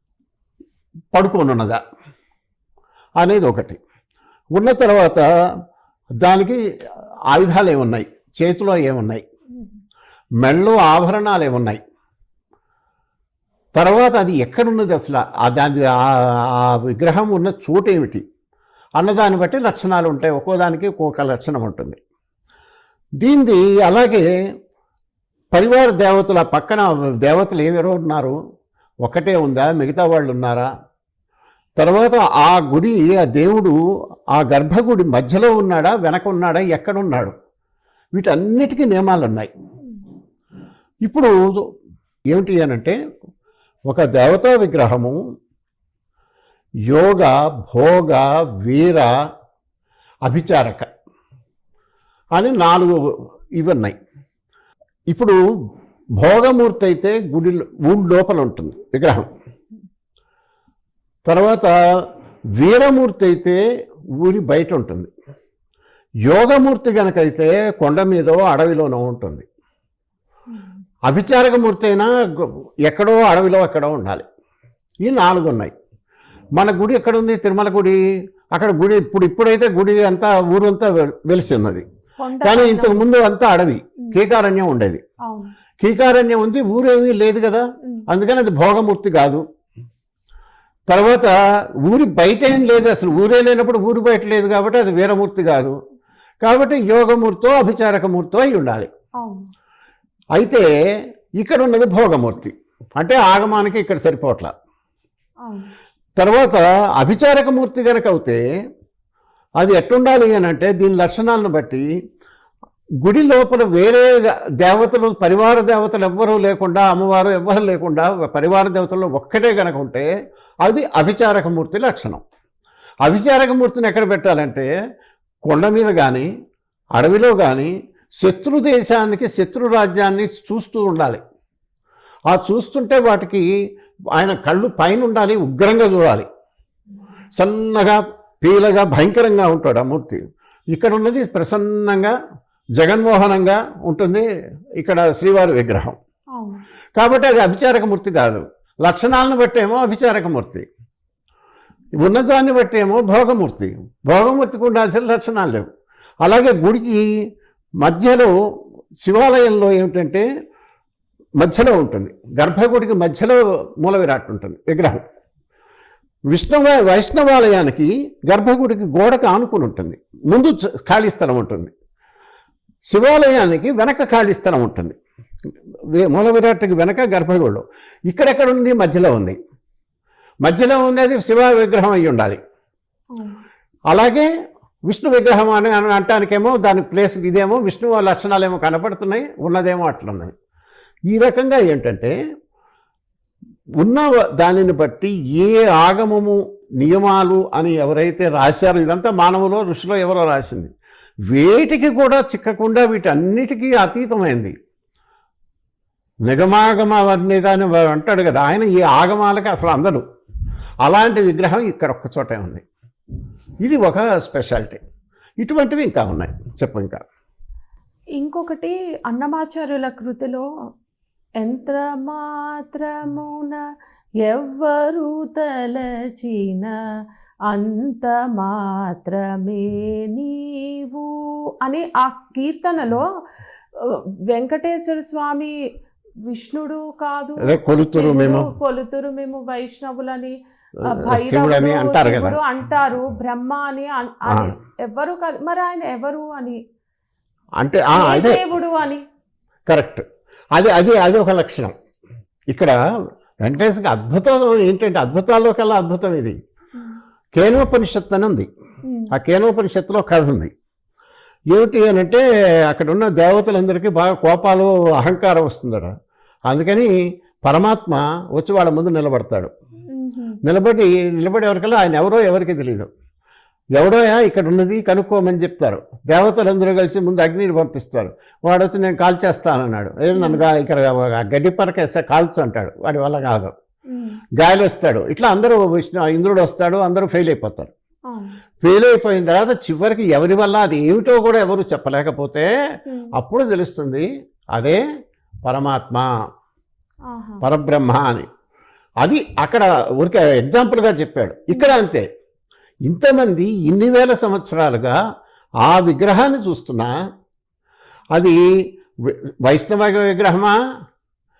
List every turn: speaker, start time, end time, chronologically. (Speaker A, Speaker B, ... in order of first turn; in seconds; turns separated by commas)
Speaker A: 1.1-1.8, Speaker A: 3.2-3.8, Speaker A: 4.5-5.2, Speaker A: 6.2-6.6, Speaker A: 7.3-9.2, Speaker A: 10.4-11.8, Speaker A: 13.8-18.2, Speaker A: 19.0-22.0, Speaker A: 23.2-24.3, Speaker A: 25.5-28.4, Speaker A: 29.1-30.7, Speaker A: 31.8-33.8, Speaker A: 34.4-37.3, Speaker A: 38.2-39.5, Speaker A: 41.1-41.6, Speaker A: 42.3-43.0, Speaker A: 43.9-45.2, Speaker A: 46.9-49.1, Speaker A: 50.3-50.9, Speaker A: 52.4-53.0, Speaker A: 53.6-54.0, Speaker A: 55.1-55.4, Speaker A: 56.2-59.3, Speaker A: 61.3-63.6, Speaker A: 64.2-65.1, Speaker A: 66.3-69.5, Speaker A: 71.1-74.2, Speaker A: 75.0-75.7, Speaker A: 76.6-78.0, Speaker A: 78.5-81.8, Speaker B: 82.2-83.1, Speaker A: 82.4-85.0, Speaker B: 85.2-85.6, Speaker A: 85.8-89.4, Speaker A: 90.9-95.7, Speaker A: 96.4-98.9, Speaker B: 99.2-99.5, Speaker A: 100.4-100.7, Speaker A: 101.4-104.5, Speaker B: 105.5-105.7, Speaker A: 106.2-108.4, Speaker A: 109.6-111.8, Speaker A: 113.0-120.1, Speaker A: 120.7-122.2, Speaker A: 123.0-124.7, Speaker A: 125.5-126.3, Speaker A: 127.0-131.2, Speaker A: 132.3-133.5, Speaker A: 134.2-136.3, Speaker A: 137.3-140.2, Speaker A: 140.7-142.1, Speaker A: 142.8-144.2, Speaker A: 144.8-146.0, Speaker B: 146.4-146.6, Speaker A: 147.0-150.7, Speaker A: 152.0-155.7, Speaker A: 156.2-157.1, Speaker A: 157.8-158.3, Speaker A: 159.0-160.2, Speaker A: 161.4-165.0, Speaker A: 166.3-171.7, Speaker A: 172.9-175.0, Speaker A: 175.9-179.4, Speaker A: 180.4-182.4, Speaker A: 183.9-184.3, Speaker A: 184.9-190.3, Speaker A: 191.1-192.1, Speaker A: 193.8-200.7, Speaker A: 201.3-204.5, Speaker A: 206.3-210.0, Speaker A: 210.8-212.6, Speaker A: 213.6-214.8, Speaker A: 215.4-217.0, Speaker B: 218.2-220.4, Speaker B: 221.4-223.6, Speaker B: 224.2-226.8, Speaker B: 227.5-233.1, Speaker B: 233.8-235.5, Speaker B: 236.3-246.6, Speaker A: 237.4-238.5, Speaker A: 240.9-242.4, Speaker A: 247.6-248.4, Speaker B: 247.9-249.0, Speaker A: 249.7-250.0, Speaker A: 250.6-251.7, Speaker A: 253.4-256.3, Speaker A: 257.4-258.5, Speaker A: 259.1-260.5, Speaker A: 261.5-265.9, Speaker A: 266.5-269.5, Speaker B: 269.9-270.4, Speaker A: 270.4-272.9, Speaker A: 273.8-283.5, Speaker B: 280.1-280.5, Speaker B: 283.9-284.2, Speaker A: 284.4-287.7, Speaker B: 288.1-288.4, Speaker A: 288.6-292.5, Speaker A: 293.2-294.8, Speaker A: 295.4-296.1, Speaker B: 297.1-297.4, Speaker A: 297.4-298.3, Speaker A: 299.0-302.1, Speaker B: 301.5-301.8, Speaker A: 302.9-305.0, Speaker A: 305.6-306.9, Speaker A: 308.1-310.6